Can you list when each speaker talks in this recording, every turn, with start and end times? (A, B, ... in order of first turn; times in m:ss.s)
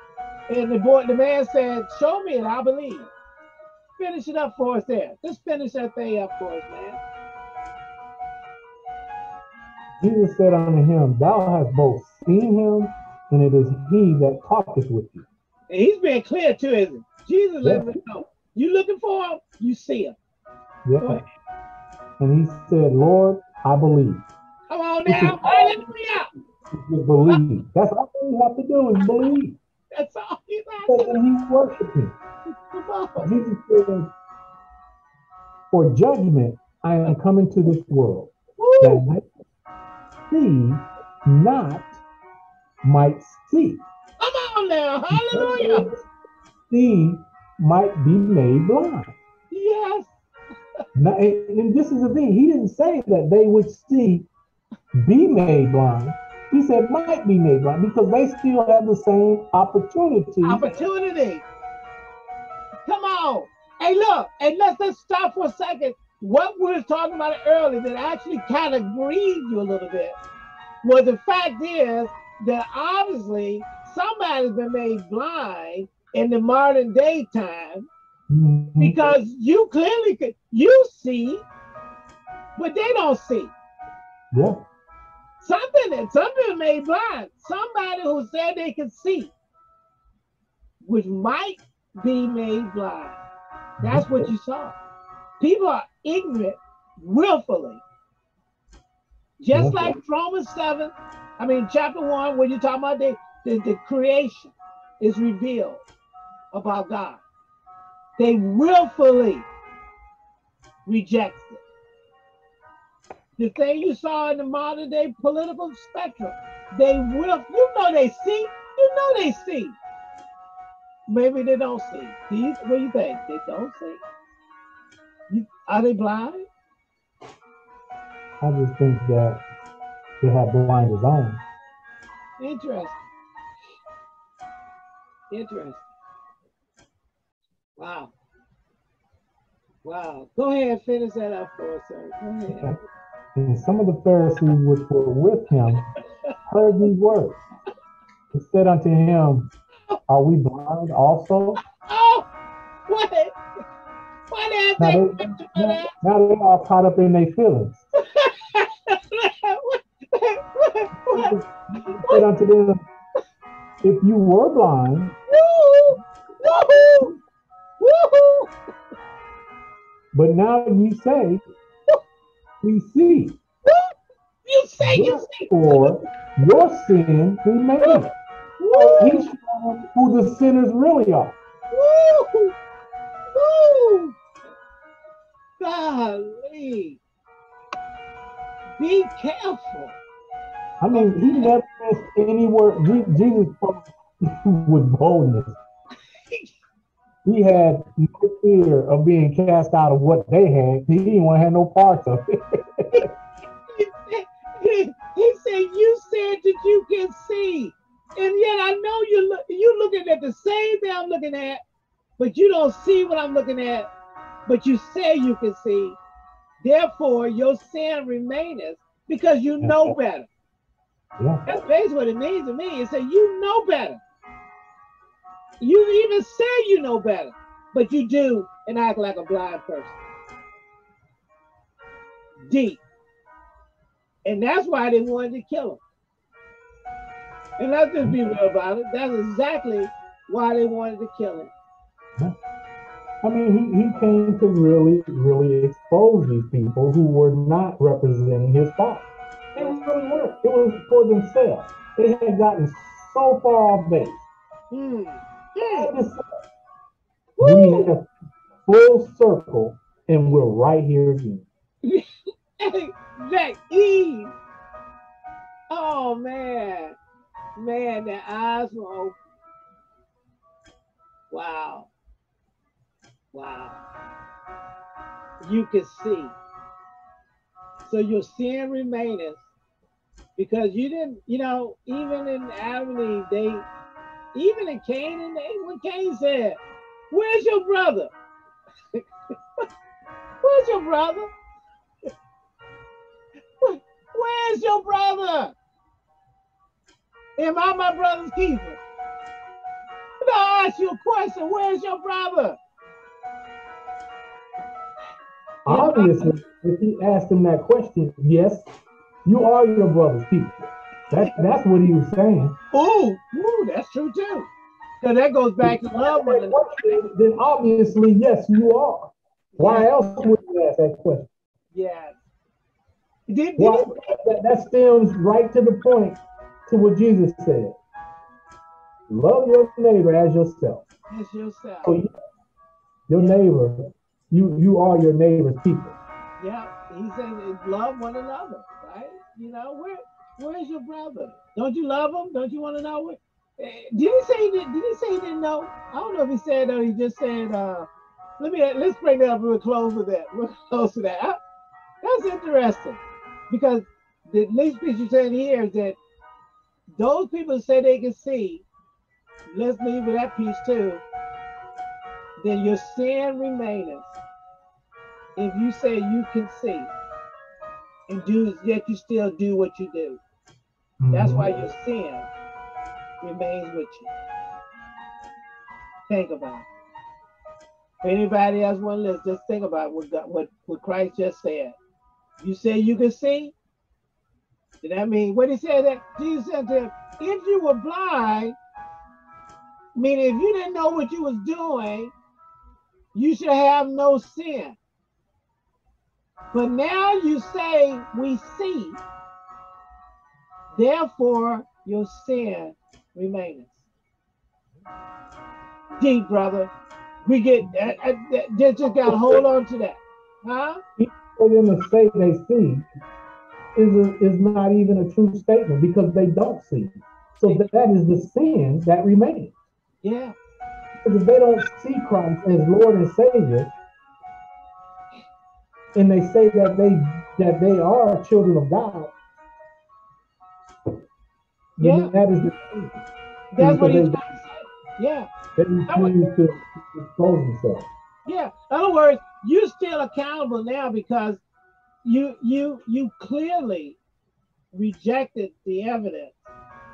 0:00.5-0:03.1 A
0:04.0-0:07.0 A
0:10.0-0:15.3 B
0:15.7-0:20.2 A
0:17.6-0:17.9 B
0:20.8-0:21.2 B
0:21.0-0:21.3 A
0:22.2-0:24.2 B
0:24.7-0:26.3 A
0:25.1-0:25.9 B
0:26.7-0:29.6 B
0:29.9-0:31.2 A
0:30.9-0:32.2 B
0:32.7-0:33.4 A
0:33.2-0:34.1 B
0:35.7-0:39.3 B
0:38.6-0:39.0 A
0:40.3-0:42.0 B
0:42.8-0:43.8 B
0:44.2-0:45.9 A
0:45.1-0:46.1 B
0:46.7-0:49.2 B
0:49.5-0:50.1 A
0:51.0-0:54.3 B
0:54.9-1:00.8 B
1:00.4-1:01.4 A
1:02.9-1:10.2 A
1:10.8-1:17.9 A
1:18.3-1:19.0 B
1:18.8-1:21.4 A
1:22.6-1:23.6 A
1:24.3-1:24.6 B
1:25.4-1:29.3 A
1:30.8-1:33.2 A
1:33.8-1:34.3 B
1:33.8-1:34.8 A
1:35.4-1:37.8 A
1:39.4-1:45.8 A
1:39.5-1:40.0 B
1:46.5-1:47.2 A
1:48.2-1:49.5 A
1:50.9-1:51.6 A
1:53.4-1:59.8 A
2:01.1-2:04.0 A
2:05.3-2:06.4 A
2:08.4-2:09.4 B
2:10.2-2:11.4 B
2:12.4-2:13.0 A
2:15.3-2:15.8 A
2:17.8-2:18.1 A
2:19.8-2:22.8 A
2:22.5-2:22.8 B
2:23.4-2:25.8 B
2:26.5-2:27.4 B
2:28.3-2:29.5 B
2:30.1-2:31.6 B
2:31.8-2:32.3 A
2:32.9-2:33.4 A
2:34.3-2:35.9 A
2:34.8-2:37.8 B
2:38.2-2:42.2 A
2:41.1-2:42.8 B
2:43.8-2:45.2 B
2:45.3-2:47.2 A
2:47.8-2:48.5 A
2:50.1-2:51.4 B
2:52.6-2:53.4 B
2:53.7-2:53.9 A
2:54.5-2:55.9 A
2:54.8-2:58.1 B
2:57.8-2:58.1 A
2:58.6-2:59.2 A
2:58.7-3:01.4 B
3:01.7-3:02.6 A
3:03.4-3:04.2 A
3:05.6-3:07.0 A
3:08.8-3:10.0 A
3:10.8-3:15.6 B
3:10.9-3:11.5 A
3:17.2-3:23.0 B
3:23.7-3:31.6 A
3:32.2-3:33.9 A
3:34.5-3:36.0 A
3:36.6-3:40.3 A
3:39.6-3:40.0 B
3:41.2-3:41.4 B
3:41.5-3:44.0 A
3:45.6-3:50.0 A
3:52.4-3:52.8 A
3:54.2-3:55.8 A
3:57.6-4:01.5 A
4:03.2-4:14.2 B
4:14.7-4:15.9 A
4:15.7-4:16.3 B
4:17.4-4:17.9 A
4:17.4-4:18.1 B
4:18.7-4:21.5 B
4:22.6-4:24.3 A
4:25.7-4:27.0 A
4:27.6-4:29.2 A
4:31.3-4:31.9 A
4:33.3-4:33.8 A
4:35.4-4:36.4 A
4:37.8-4:39.5 A
4:40.4-4:43.7 A
4:44.3-4:46.6 A
4:47.1-4:48.1 A
4:50.4-4:51.3 A
4:53.6-4:55.6 A
4:57.4-4:58.8 A
5:00.2-5:02.6 A
5:05.6-5:08.7 B
5:05.7-5:06.3 A
5:09.2-5:12.6 B
5:12.7-5:14.5 A
5:15.0-5:16.9 A
5:15.6-5:21.3 B
5:19.6-5:19.9 A
5:21.7-5:22.2 A
5:23.3-5:24.1 A
5:23.6-5:27.8 B
5:29.1-5:30.8 B
5:31.1-5:31.9 A
5:31.8-5:32.1 B
5:33.1-5:36.0 B
5:36.4-5:47.9 A
5:48.4-5:51.4 A
5:52.0-5:56.0 A
5:57.0-5:58.6 A
5:59.5-6:01.0 A
6:02.4-6:04.2 A
6:05.4-6:06.9 A
6:08.1-6:10.2 A
6:11.0-6:11.6 B
6:11.1-6:12.3 A
6:13.2-6:14.1 A
6:16.1-6:16.6 A
6:18.0-6:21.8 A
6:22.4-6:23.5 A
6:24.8-6:28.6 A
6:30.0-6:32.1 A
6:33.1-6:34.8 A
6:36.5-6:39.0 A
6:40.7-6:43.8 A
6:46.0-6:46.7 A
6:47.2-6:50.8 A
6:49.1-6:49.4 B
6:51.0-6:52.9 B
6:53.8-6:59.5 B
7:00.0-7:00.3 A
7:01.0-7:03.7 B
7:06.0-7:09.1 B
7:11.8-7:13.0 B
7:11.8-7:12.1 A
7:13.5-7:15.3 A
7:13.6-7:14.2 B
7:15.6-7:17.9 B
7:15.9-7:16.3 A
7:18.3-7:21.4 A
7:22.0-7:24.0 A
7:24.7-7:26.4 A